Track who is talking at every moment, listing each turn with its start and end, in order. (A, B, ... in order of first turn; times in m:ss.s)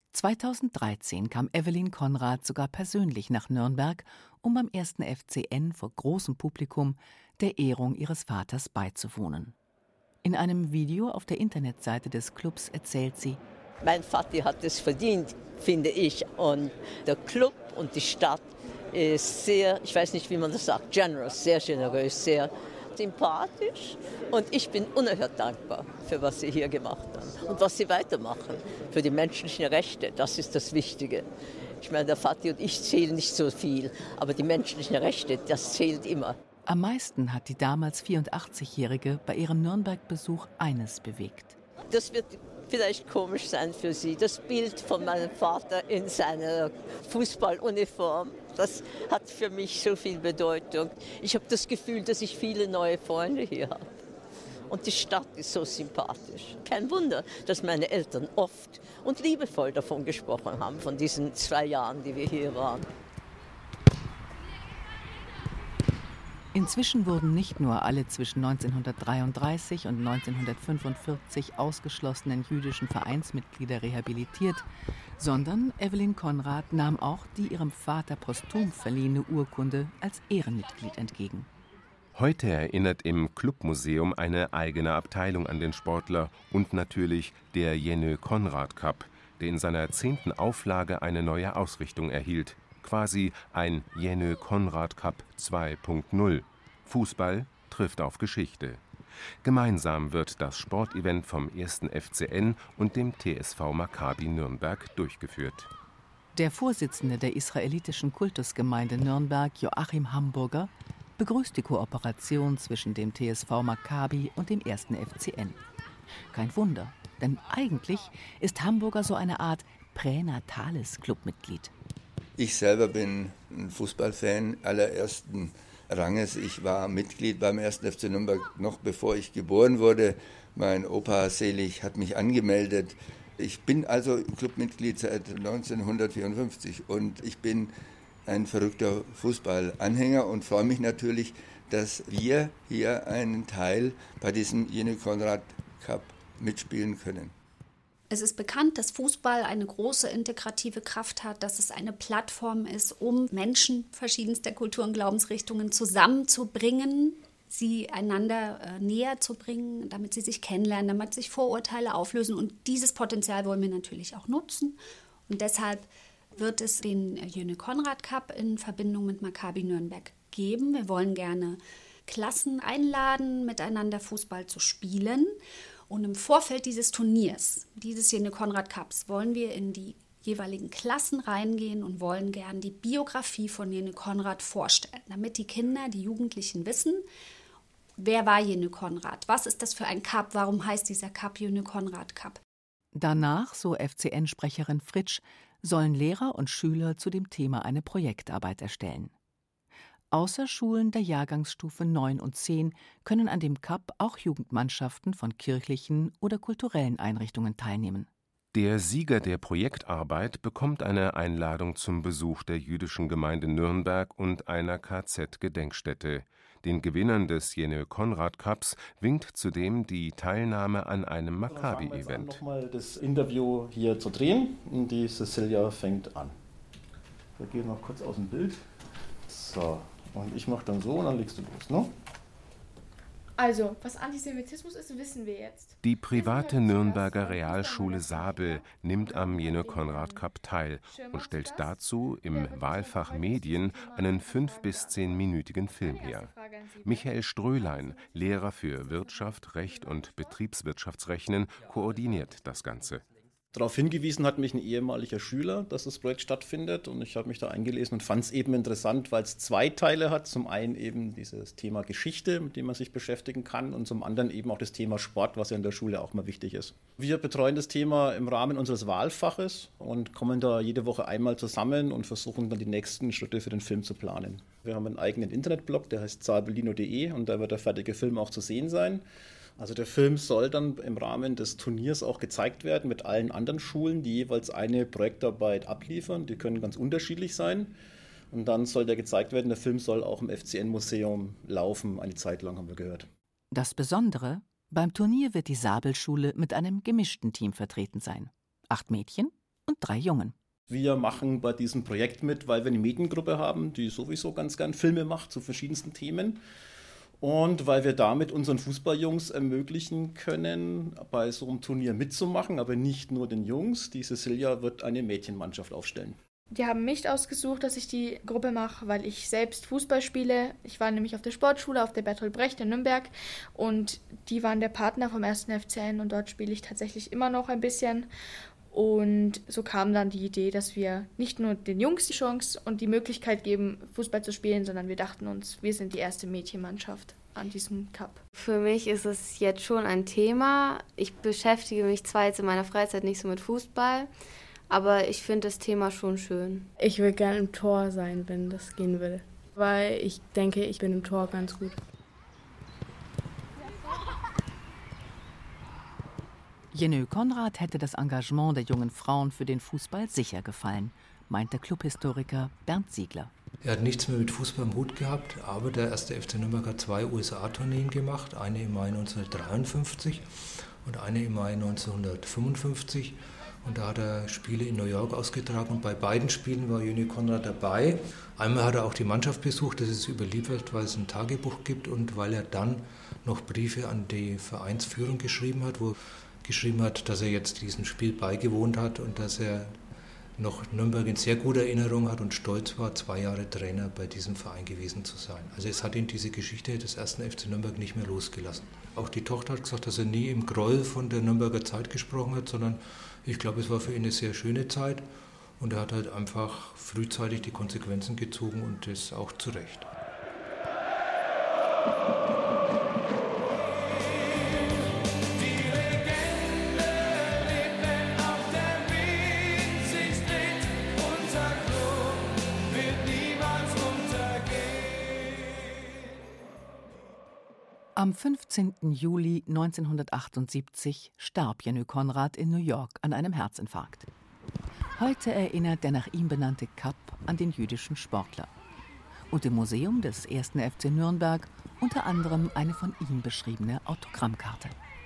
0:00.1-0:09.5 A
0:10.2-0:13.4 A
0:13.8-0:31.2 B
0:31.8-0:36.4 B
0:36.7-0:41.6 A
0:41.9-0:54.0 B
0:54.7-1:02.9 B
1:06.5-1:14.6 A
1:15.2-1:21.5 A
1:22.2-1:38.8 C
1:39.4-1:45.7 C
1:46.3-1:55.6 A
1:56.3-2:01.7 A
2:02.4-2:17.7 D
2:18.2-2:27.3 D
2:28.1-2:55.4 E
2:55.9-3:07.0 E
3:08.0-3:12.4 E
3:13.0-3:19.1 A
3:20.1-3:28.1 A
3:28.5-3:42.4 C
3:41.5-3:46.3 F
3:47.4-3:48.6 F
3:49.3-3:51.9 F
3:53.4-4:00.3 G
3:55.8-4:13.0 C
4:00.9-4:10.4 G
4:13.5-4:39.0 F
4:39.6-4:47.7 F
4:48.3-4:53.1 F
4:53.5-5:00.4 A
5:00.7-5:06.4 F
5:07.2-5:16.2 F
5:16.5-5:28.1 G
5:28.7-5:38.2 G
5:38.3-5:44.1 H
5:44.7-5:46.7 H
5:46.8-5:51.8 I
5:56.7-6:03.3 A
6:03.6-6:29.8 J
6:30.4-6:45.1 J
6:45.6-6:49.9 J
7:08.0-7:14.1 A
7:15.0-7:18.5 A
7:19.3-7:24.8 A